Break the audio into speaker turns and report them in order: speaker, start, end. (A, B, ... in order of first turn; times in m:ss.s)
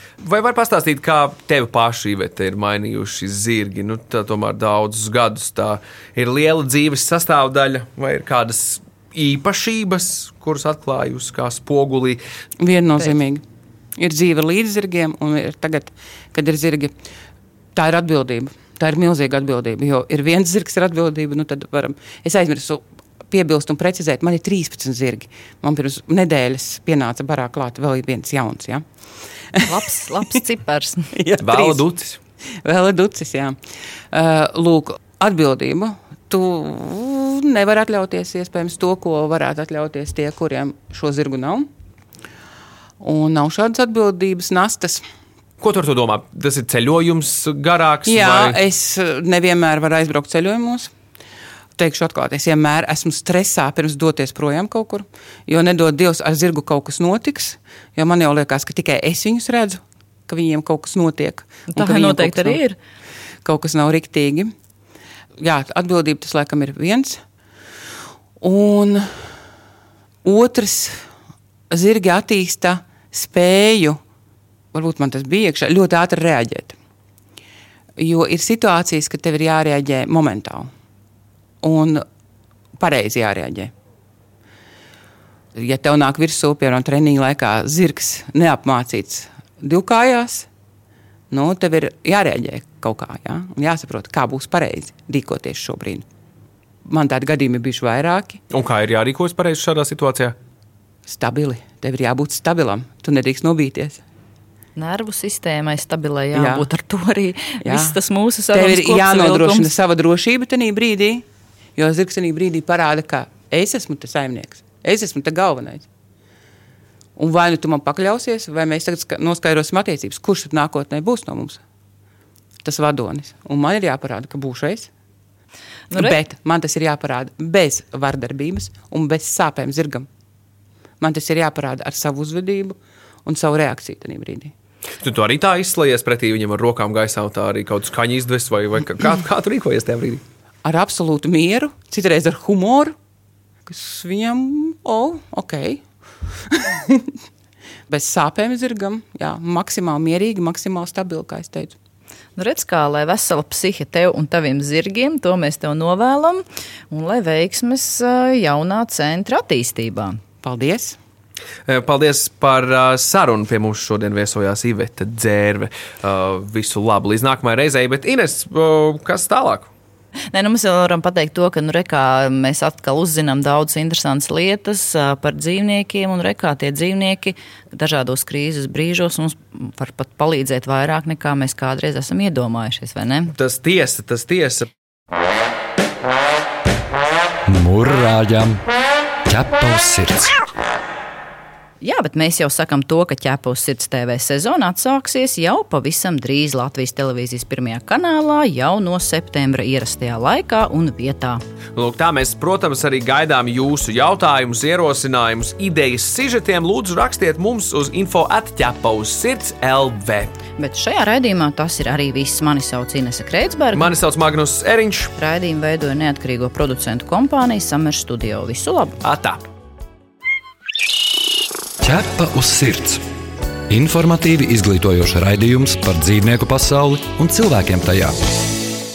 0:00.2-0:12.2 A
0:12.6-0:13.4 B
0:14.0-0:16.9 B
0:17.8-0:28.8 B
0:29.6-0:31.1 C
0:31.1-0:31.8 B
0:31.4-0:32.2 A
0:32.6-0:33.6 B
0:34.1-0:41.7 B
0:43.0-0:45.0 B
0:45.6-0:48.6 A
0:48.1-0:50.9 B
0:51.8-1:02.6 B
1:01.7-1:02.8 C
1:03.4-1:04.5 B
1:05.4-1:07.2 B
1:08.4-1:09.2 B
1:10.2-1:11.0 B
1:11.7-1:14.0 B
1:14.7-1:16.8 B
1:18.0-1:20.7 B
1:21.6-1:22.0 B
1:22.8-1:23.7 B
1:25.6-1:30.5 B
1:31.3-1:36.1 B
1:36.8-1:38.4 B
1:38.5-1:40.4 A
1:41.1-1:44.0 B
1:44.8-1:49.7 C
1:46.3-1:46.7 B
1:47.6-1:48.0 B
1:48.5-1:55.9 B
1:57.2-2:01.6 B
2:02.6-2:04.9 B
2:05.9-2:10.1 B
2:11.0-2:14.5 B
2:15.0-2:20.2 A
2:20.6-2:23.0 B
2:23.7-2:25.8 B
2:26.4-2:27.1 B
2:27.9-2:31.8 B
2:32.4-2:40.2 C
2:40.4-2:41.0 B
2:41.7-2:49.7 A
2:50.3-3:03.4 C
3:03.4-3:04.7 A
3:07.5-3:08.6 D
3:09.3-3:10.3 D
3:11.8-3:21.4 C
3:21.8-3:30.4 A
3:30.6-3:33.9 C
3:33.8-3:35.1 A
3:35.2-3:39.0 C
3:39.0-3:39.4 A
3:41.8-3:43.0 D
3:43.7-3:48.3 D